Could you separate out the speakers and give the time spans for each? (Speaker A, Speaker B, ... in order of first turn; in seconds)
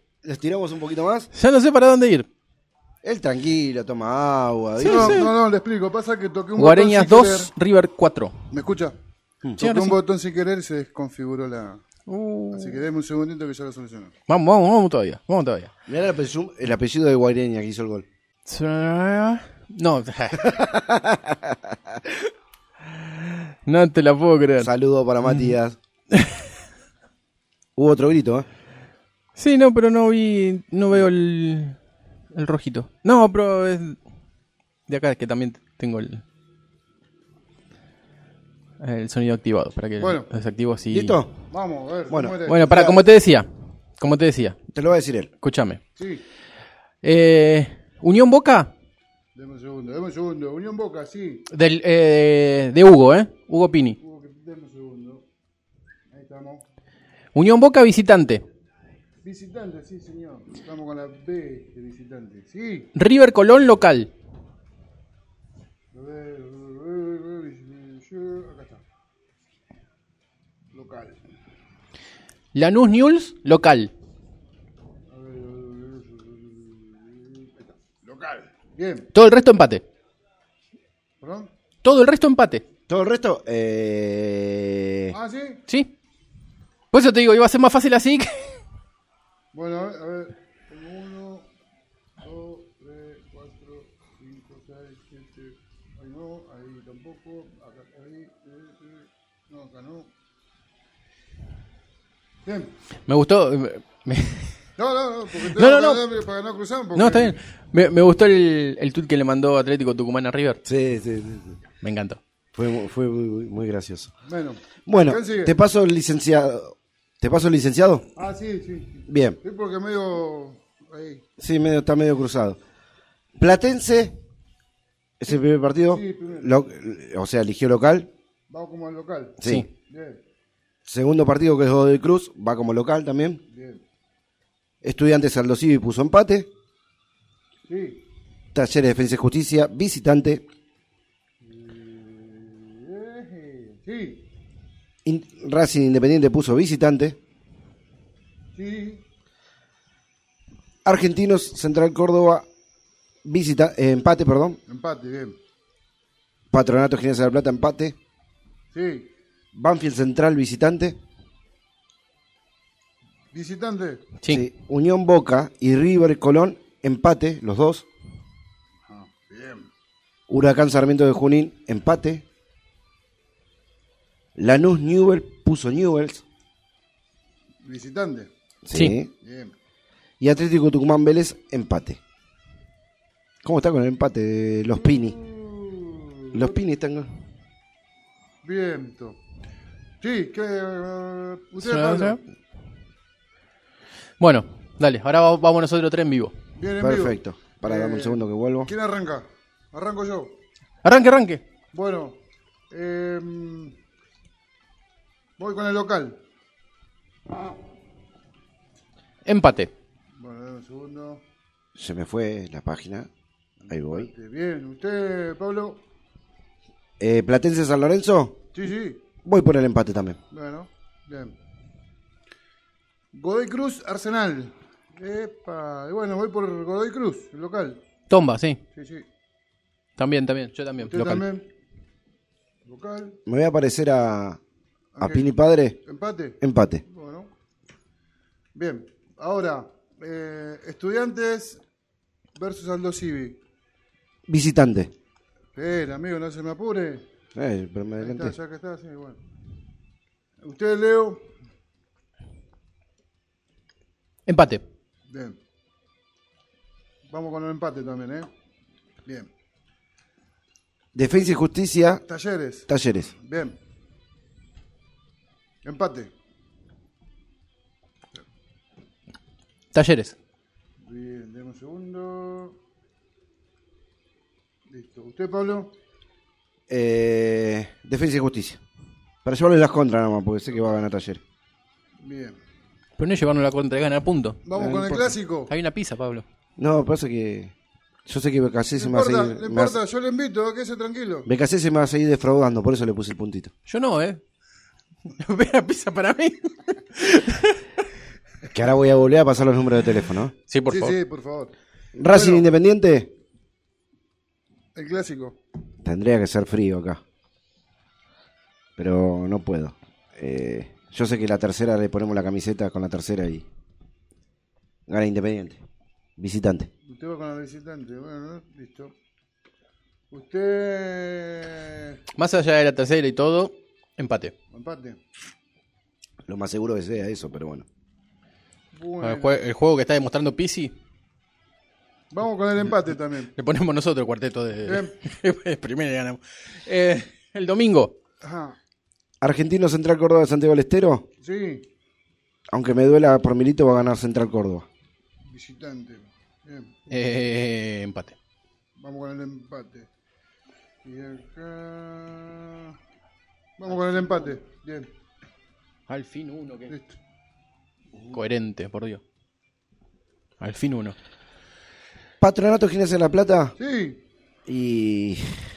Speaker A: 0.2-1.3, 3.0-5.3, 15.9-18.1, 20.4-22.0, 24.6-25.8, 27.8-28.4, 40.9-41.3, 42.1-42.4, 44.7-45.3, 82.9-85.2, 110.6-111.5, 112.5-114.1, 114.8-118.1, 119.1-119.4, 121.4-122.6, 123.4-124.2, 125.2-128.1, 129.4-129.7, 130.8-133.4, 134.8-136.5, 138.5-140.4, 145.0-147.2, 150.8-152.4, 153.2-154.6, 156.5-157.9, 159.5-161.0, 164.3-167.9, 170.3-172.2, 174.3-176.2, 178.6-179.1, 180.2-182.0, 183.4-185.2, 186.3-187.1, 196.8-198.7, 211.8-213.1, 213.7-214.1, 217.0-218.4, 219.2-220.2, 233.2-234.4, 235.0-235.8, 236.4-236.8, 244.3-244.9, 247.3-248.3, 260.9-262.0, 262.7-263.1, 276.7-278.6, 279.2-281.2, 284.5-285.1, 286.6-287.5, 288.1-289.8, 291.2-293.5, 298.5-300.3, 301.9-303.1, 305.8-307.0, 308.8-313.4, 314.9-315.6, 316.2-316.7, 326.2-327.6, 339.2-341.1, 342.5-344.7, 362.2-363.5, 364.4-365.3
Speaker B: 1.3-2.3, 4.8-5.3, 6.6-8.5, 9.6-10.0, 12.1-12.8, 14.3-15.7, 18.5-20.6, 23.6-24.7, 25.2-25.5, 26.1-26.4, 29.4-31.8, 32.3-34.0, 34.9-36.2, 38.8-41.2, 42.5-43.5, 44.0-44.6, 45.4-45.8, 47.0-48.7, 51.5-54.0, 57.3-58.4, 63.0-64.1, 72.5-73.9, 79.1-79.8, 81.8-82.6, 86.9-88.6, 103.1-104.5, 105.4-106.0, 106.9-110.6, 111.8-112.2, 178.7-179.0, 191.6-192.2, 194.2-196.3, 200.8-201.4, 209.2-209.7, 228.1-228.6, 230.0-231.2, 254.3-254.6, 269.7-270.1, 283.0-284.4, 285.5-286.2, 293.7-294.2, 295.2-297.6, 300.5-301.0, 322.2-324.3, 329.0-330.7, 333.3-337.9, 346.9-348.1, 355.9-356.7, 358.1-359.0, 360.4-360.9
Speaker C: 4.8-7.5, 8.5-8.9, 9.6-11.8, 12.5-14.1, 40.0-40.3, 41.5-43.0, 46.0-46.2, 49.3-51.4, 54.0-55.2, 56.1-56.6, 59.2-62.9, 65.9-68.8, 70.7-71.2, 75.1-79.1, 81.2-81.5, 85.1-85.6, 89.5-91.5, 92.2-100.1, 102.4-102.7, 104.8-107.4, 114.3-115.5, 118.2-121.2, 125.9-126.5, 128.5-130.2, 133.5-133.8, 137.7-138.0, 141.4-144.2, 148.5-149.0, 154.7-155.4, 158.7-159.1, 163.3-164.0, 168.9-169.7, 177.6-178.3, 179.2-179.5, 184.7-186.6, 188.4-189.2, 190.0-192.2, 196.6-200.3, 201.7-202.2, 202.7-203.7, 205.4-206.2, 210.2-211.2, 213.7-215.8, 218.5-219.0, 220.3-221.3, 223.1-227.8, 228.7-229.1, 230.8-231.4, 232.6-233.2, 234.9-235.3, 235.8-237.3, 238.5-241.6, 242.3-243.4, 245.5-247.1, 248.0-249.2, 250.4-251.3, 255.1-255.4, 257.1-258.3, 259.0-259.3, 262.0-263.6, 265.6-266.1, 270.8-272.6, 274.7-275.7, 282.0-282.4, 284.4-285.5, 288.8-291.3, 300.7-301.5, 302.1-302.5, 304.7-305.4, 316.9-318.9, 320.1-322.0, 324.5-325.0, 328.7-329.4, 332.1-333.3, 334.6-334.9, 338.2-338.6, 341.2-341.6, 345.3-346.7, 348.8-349.9, 350.8-352.7, 353.6-354.9, 356.7-357.0, 363.6-364.0